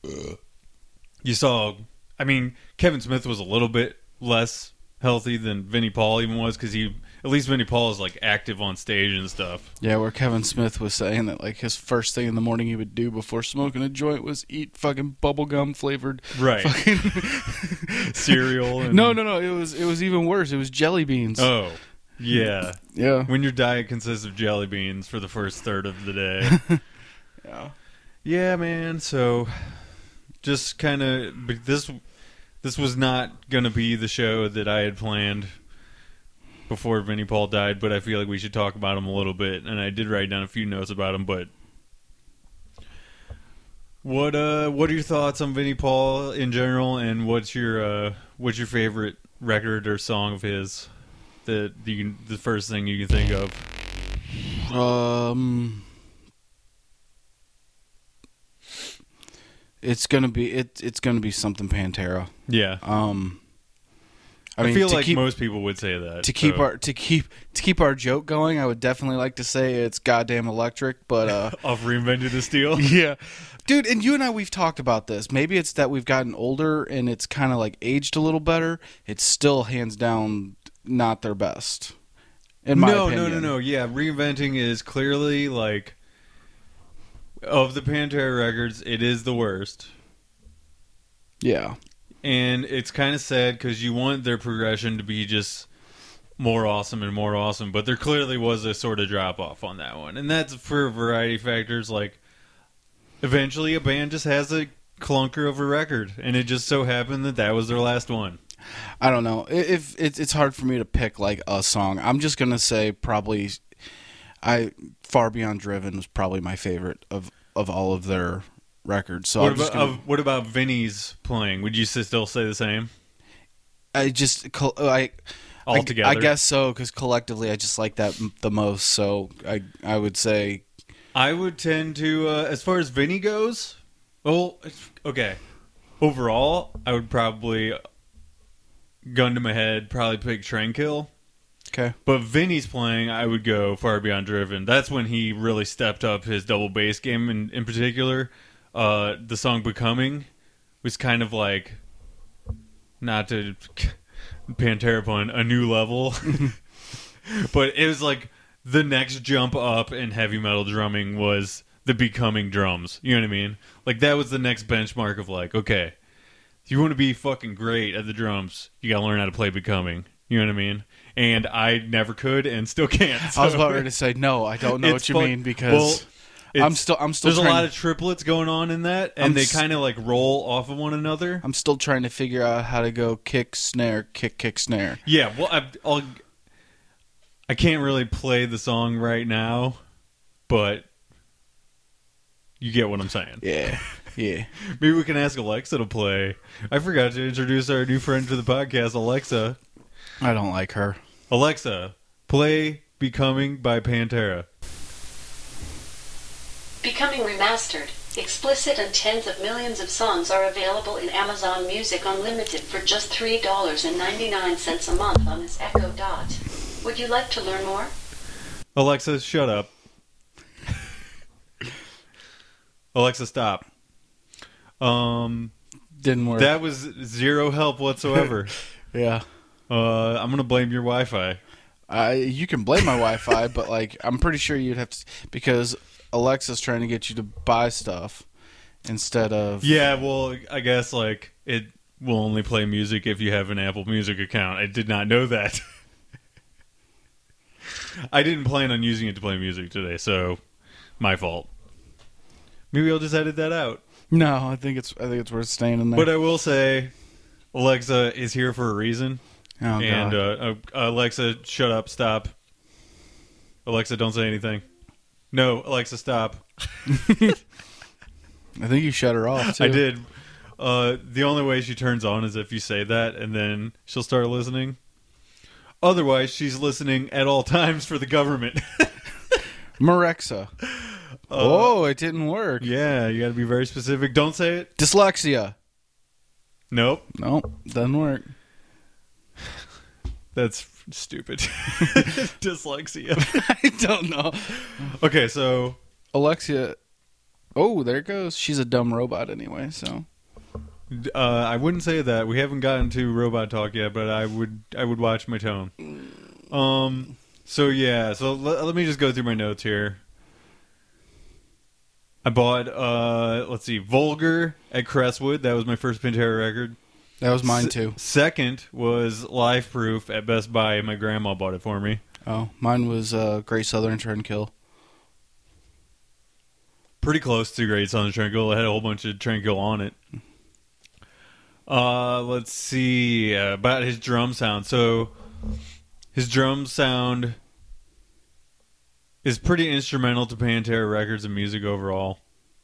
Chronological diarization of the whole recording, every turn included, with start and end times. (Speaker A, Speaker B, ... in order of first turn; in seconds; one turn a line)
Speaker A: 1.2-9.7
Speaker B: 9.8-21.5
Speaker A: 16.3-17.4
Speaker A: 18.0-19.2
Speaker A: 21.4-26.6
Speaker B: 22.8-23.3
Speaker B: 26.4-26.8
Speaker B: 27.4-27.7
Speaker A: 28.2-29.9
Speaker A: 30.4-32.0
Speaker A: 32.6-35.5
Speaker A: 36.7-41.5
Speaker A: 44.0-50.9
Speaker A: 51.4-53.6
Speaker B: 54.5-55.9
Speaker B: 59.8-62.3
Speaker A: 62.5-62.8
Speaker B: 62.8-63.4
Speaker B: 64.6-65.2
Speaker A: 64.6-66.7
Speaker B: 66.2-71.6
Speaker A: 71.3-72.9
Speaker B: 72.7-81.9
Speaker B: 82.6-83.5
Speaker A: 82.7-86.0
Speaker A: 87.4-89.9
Speaker B: 91.4-91.8
Speaker A: 92.2-95.7
Speaker A: 96.4-102.2
Speaker A: 103.2-108.4
Speaker B: 109.0-113.6
Speaker B: 114.4-120.0
Speaker A: 119.4-122.9
Speaker B: 123.9-130.6
Speaker A: 125.7-126.3
Speaker A: 131.1-135.4
Speaker A: 136.0-137.8
Speaker A: 139.0-141.1
Speaker B: 141.7-141.9
Speaker A: 142.0-150.3
Speaker A: 150.8-151.8
Speaker A: 153.0-156.6
Speaker B: 156.3-156.5
Speaker A: 157.2-165.9
Speaker A: 166.7-173.9
Speaker B: 173.2-176.1
Speaker A: 174.6-181.4
Speaker B: 176.6-177.7
Speaker B: 179.2-179.6
Speaker B: 181.4-185.0
Speaker A: 185.0-186.2
Speaker A: 187.5-189.8
Speaker A: 190.5-190.9
Speaker A: 192.6-193.4
Speaker B: 193.4-194.5
Speaker A: 194.6-199.6
Speaker B: 200.2-201.0
Speaker A: 201.3-204.5
Speaker C: 206.8-217.9
Speaker A: 218.7-219.7
Speaker A: 222.9-223.7
Speaker A: 224.8-225.5
Speaker B: 226.0-226.5
Speaker A: 226.4-228.5
Speaker B: 228.9-229.2
Speaker A: 229.7-231.4
Speaker B: 231.9-238.2
Speaker B: 238.8-239.7
Speaker A: 239.6-245.6
Speaker A: 247.8-250.4
Speaker A: 251.0-251.5
Speaker A: 252.7-253.8
Speaker B: 254.1-256.1
Speaker A: 255.9-256.9
Speaker A: 257.5-259.2
Speaker B: 259.6-260.2
Speaker A: 259.8-262.3
Speaker A: 263.6-264.6
Speaker A: 265.3-267.3
Speaker B: 266.9-267.4
Speaker B: 268.6-269.8
Speaker A: 269.4-274.8
Speaker A: 275.8-278.9
Speaker B: 279.8-280.5
Speaker A: 280.6-281.7
Speaker B: 281.3-282.7
Speaker A: 282.6-284.7
Speaker B: 284.8-285.5
Speaker A: 286.7-287.1
Speaker B: 287.1-288.3
Speaker A: 290.3-293.4
Speaker B: 293.2-294.9
Speaker A: 294.6-295.8
Speaker B: 296.1-296.8
Speaker B: 297.6-300.1
Speaker A: 300.9-305.7
Speaker A: 306.5-310.0
Speaker A: 312.2-316.8
Speaker B: 317.2-318.0
Speaker A: 317.4-322.0
Speaker B: 322.2-324.5
Speaker A: 327.0-329.9
Speaker A: 331.7-335.1
Speaker A: 336.1-337.4
Speaker A: 339.2-342.2